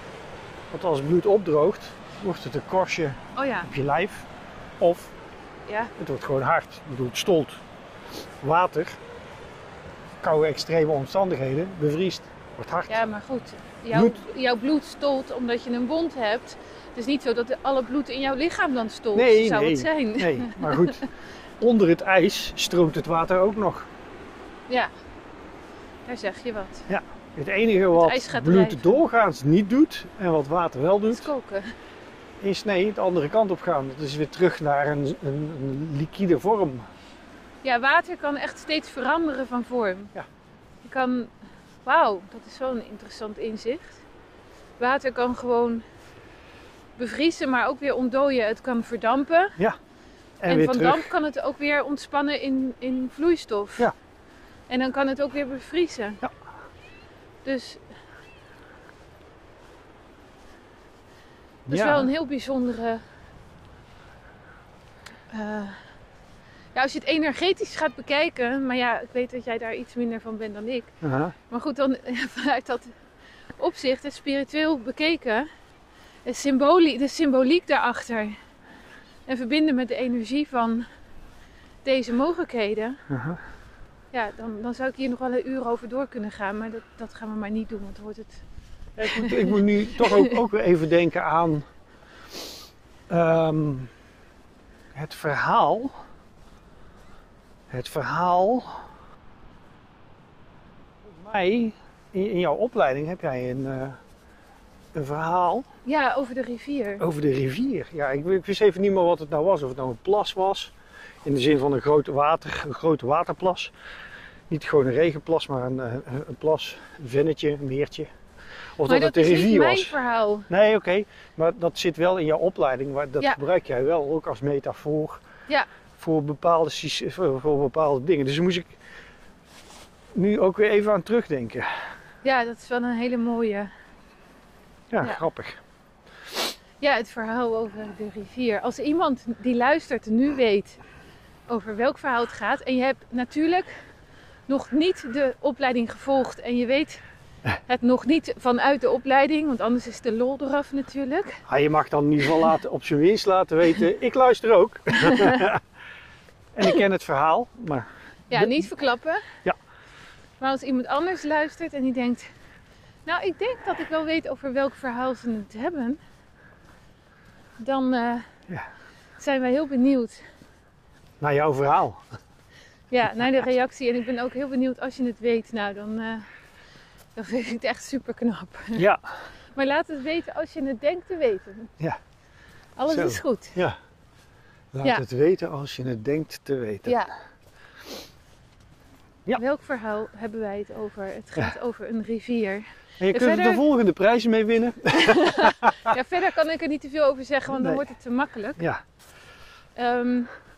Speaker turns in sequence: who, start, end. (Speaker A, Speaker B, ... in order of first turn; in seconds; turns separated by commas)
Speaker A: 0.7-4.3, Speaker B: 3.4-3.7, Speaker A: 4.8-5.1, Speaker B: 5.7-5.9, Speaker A: 6.0-7.6, Speaker A: 8.4-9.0, Speaker A: 10.2-13.0, Speaker B: 12.9-21.0, Speaker A: 13.9-14.2, Speaker A: 19.1-21.0, Speaker A: 21.6-23.9, Speaker B: 26.1-26.9, Speaker A: 26.9-31.3, Speaker B: 27.9-29.0, Speaker B: 31.1-31.7, Speaker A: 32.4-36.9, Speaker B: 37.6-40.1, Speaker B: 40.8-41.3, Speaker B: 41.8-44.0, Speaker B: 44.8-45.8, Speaker B: 47.0-49.6, Speaker A: 50.4-51.1, Speaker B: 50.5-53.9, Speaker B: 54.7-56.2, Speaker B: 57.4-57.8, Speaker A: 61.7-62.1, Speaker B: 61.7-63.0, Speaker B: 65.3-65.8, Speaker B: 66.7-70.9, Speaker A: 71.0-71.3, Speaker B: 71.5-72.9, Speaker B: 73.6-75.5, Speaker B: 76.2-78.4, Speaker B: 79.3-80.8, Speaker B: 81.8-83.0, Speaker A: 83.1-83.4, Speaker B: 84.1-88.4, Speaker A: 89.0-91.6, Speaker B: 89.1-90.3, Speaker A: 93.1-93.9, Speaker A: 94.9-95.9, Speaker A: 97.7-98.8, Speaker A: 101.0-104.0, Speaker A: 104.9-105.7, Speaker B: 105.8-107.0, Speaker A: 107.0-110.7, Speaker A: 111.2-113.7, Speaker A: 114.5-118.1, Speaker A: 118.8-119.9, Speaker B: 118.8-120.5, Speaker A: 120.5-125.2, Speaker A: 126.0-128.7, Speaker A: 130.2-131.7, Speaker B: 132.2-133.7, Speaker A: 134.9-135.6, Speaker B: 136.8-140.8, Speaker B: 141.5-143.7, Speaker B: 144.5-147.0, Speaker B: 147.7-151.4, Speaker A: 151.5-155.6, Speaker B: 154.9-155.5, Speaker A: 156.5-158.5, Speaker B: 158.3-159.2, Speaker B: 160.4-162.3, Speaker B: 163.1-166.0, Speaker B: 167.6-168.3, Speaker B: 169.2-170.2, Speaker A: 171.2-172.0, Speaker B: 172.9-176.3, Speaker B: 177.2-178.8, Speaker A: 178.8-179.0, Speaker B: 179.6-181.7, Speaker B: 182.8-183.6, Speaker A: 182.9-183.8, Speaker A: 184.7-187.0, Speaker B: 186.8-187.1, Speaker B: 189.3-193.6, Speaker A: 193.0-195.9, Speaker B: 194.9-198.6, Speaker A: 197.5-197.8, Speaker B: 199.8-200.3